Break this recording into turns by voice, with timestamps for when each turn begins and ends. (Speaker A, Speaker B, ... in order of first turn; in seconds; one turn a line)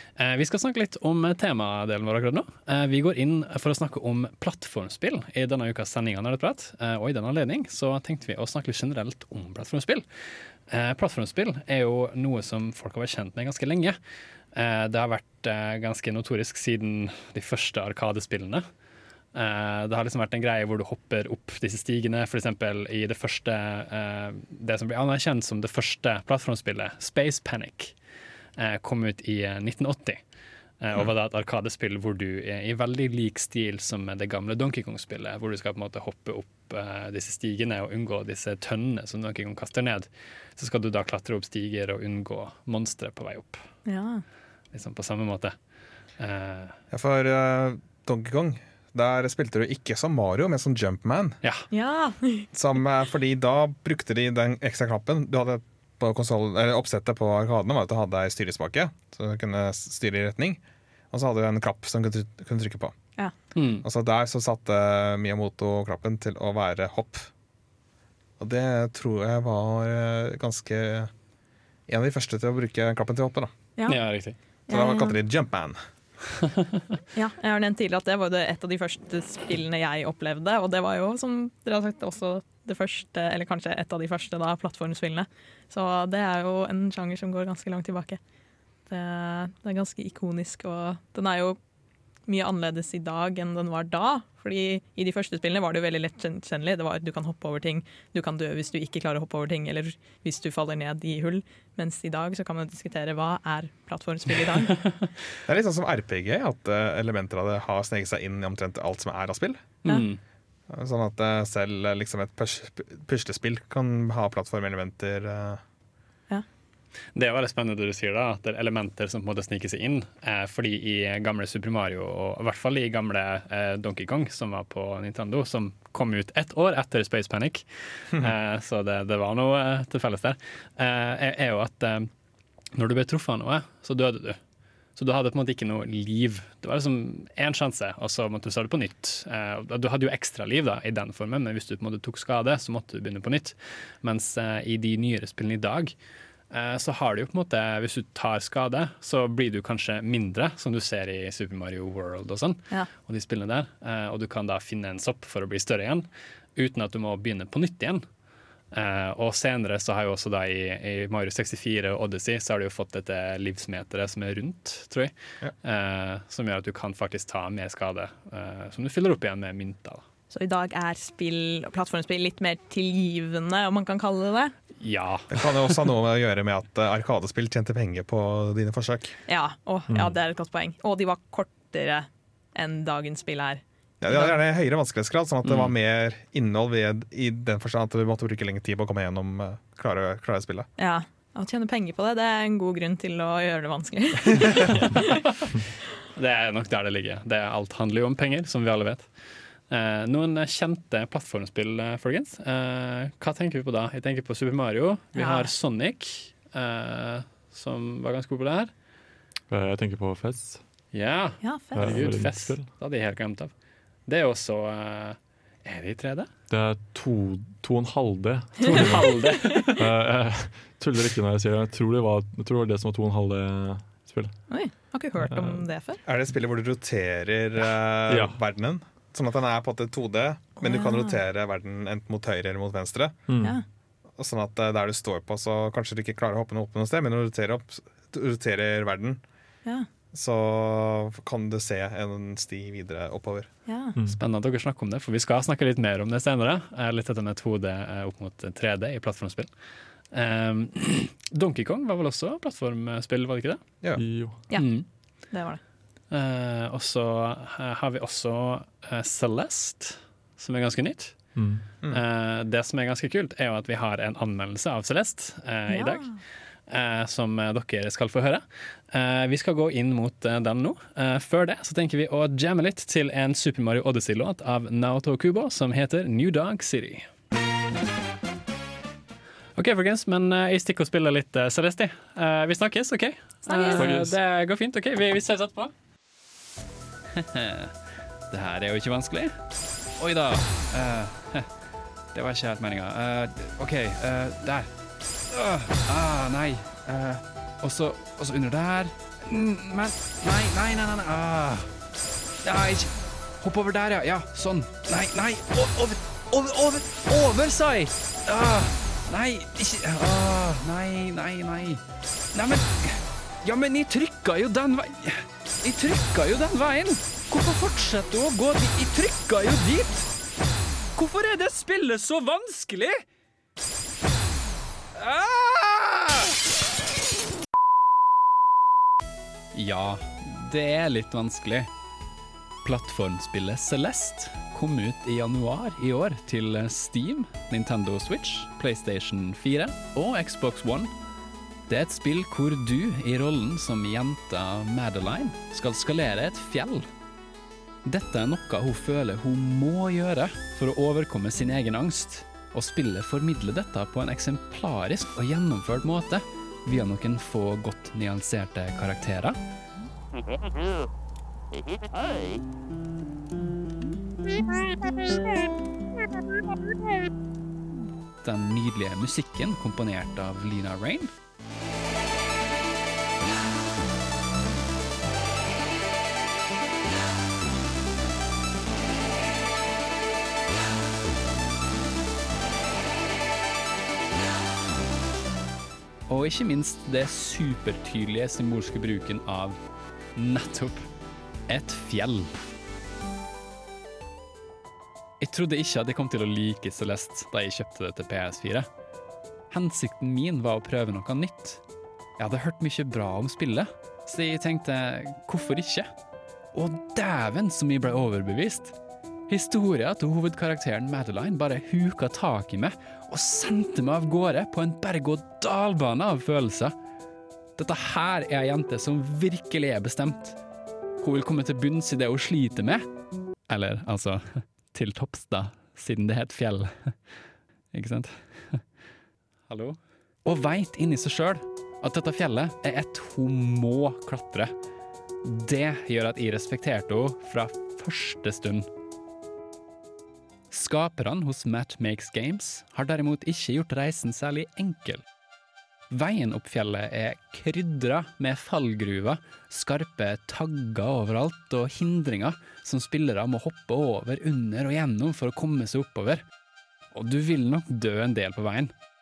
Speaker A: 0.2-10.1
Speaker A: 10.7-14.0
Speaker A: 14.5-18.6
Speaker A: 19.3-28.0
Speaker A: 28.6-30.2
Speaker A: 30.8-43.6
Speaker B: 43.9-44.2
Speaker A: 44.7-45.5
Speaker A: 46.2-46.8
Speaker C: 46.9-51.4
Speaker A: 51.4-51.7
Speaker B: 51.7-52.5
Speaker C: 52.5-60.6
Speaker C: 61.1-62.9
Speaker A: 63.5-63.9
Speaker C: 63.8-67.3
Speaker C: 68.4-71.1
Speaker C: 71.9-73.5
Speaker B: 73.8-74.1
Speaker A: 73.9-74.4
Speaker B: 74.7-75.2
Speaker C: 74.7-75.8
Speaker B: 77.2-88.2
Speaker B: 88.9-91.6
Speaker B: 92.3-105.0
Speaker C: 105.5-109.6
Speaker A: 109.8-110.2
Speaker C: 110.7-115.6
Speaker A: 117.2-132.1
Speaker A: 132.7-134.4
Speaker A: 135.0-145.9
Speaker A: 146.5-158.0
Speaker A: 158.7-170.0
Speaker B: 170.3-174.6
Speaker A: 174.8-175.6
Speaker C: 175.3-179.2
Speaker B: 179.3-184.4
Speaker D: 179.9-180.2
Speaker C: 184.0-190.7
Speaker A: 185.4-185.7
Speaker B: 190.8-195.0
Speaker A: 196.2-199.1
Speaker A: 199.7-208.7
Speaker B: 205.2-205.5
Speaker D: 209.5-210.6
Speaker A: 210.9-213.5
Speaker B: 211.4-212.2
Speaker D: 211.8-212.7
Speaker A: 214.1-216.3
Speaker D: 216.5-225.7
Speaker B: 218.7-219.6
Speaker A: 218.7-219.8
Speaker B: 224.5-226.0
Speaker C: 226.1-233.2
Speaker D: 228.1-228.4
Speaker B: 230.6-231.2
Speaker D: 233.3-233.6
Speaker C: 234.2-239.2
Speaker C: 240.1-243.5
Speaker B: 243.7-244.0
Speaker A: 244.1-249.5
Speaker A: 250.1-253.6
Speaker D: 253.9-254.4
Speaker B: 254.5-255.6
Speaker A: 254.6-254.9
Speaker A: 256.1-261.3
Speaker D: 261.4-261.6
Speaker A: 261.9-266.1
Speaker B: 265.7-266.2
Speaker A: 266.7-277.1
Speaker A: 279.6-285.7
Speaker B: 283.5-283.9
Speaker D: 283.8-284.2
Speaker E: 288.3-289.1
Speaker A: 288.3-289.3
Speaker E: 290.0-291.2
Speaker A: 290.3-291.4
Speaker E: 292.1-294.6
Speaker A: 292.9-294.5
Speaker E: 295.4-301.5
Speaker A: 295.7-297.1
Speaker A: 297.9-298.8
Speaker A: 300.4-301.4
Speaker E: 302.4-302.8
Speaker E: 303.4-311.8
Speaker A: 310.3-310.5
Speaker E: 312.4-312.9
Speaker E: 313.4-320.1
Speaker E: 321.0-322.9
Speaker E: 325.0-326.0
Speaker E: 329.5-331.7
Speaker E: 332.6-340.9
Speaker E: 341.7-346.9
Speaker E: 347.9-359.4
Speaker E: 368.2-371.1
Speaker E: 386.1-389.6
Speaker E: 390.2-390.8
Speaker E: 391.5-392.3
Speaker E: 395.2-398.6
Speaker A: 395.2-398.6
Speaker E: 399.5-401.6
Speaker E: 402.2-405.9
Speaker E: 406.5-408.7
Speaker E: 409.3-416.7
Speaker E: 417.6-420.4
Speaker E: 421.0-422.8
Speaker A: 423.5-426.7
Speaker E: 423.6-424.1
Speaker E: 424.8-425.6
Speaker A: 427.8-428.6
Speaker A: 429.5-429.8
Speaker E: 430.2-434.5
Speaker A: 434.0-434.4
Speaker A: 435.3-438.6
Speaker E: 435.5-435.8
Speaker E: 436.5-437.4
Speaker E: 438.0-438.6
Speaker E: 440.5-445.0
Speaker E: 445.9-456.2
Speaker E: 456.9-458.7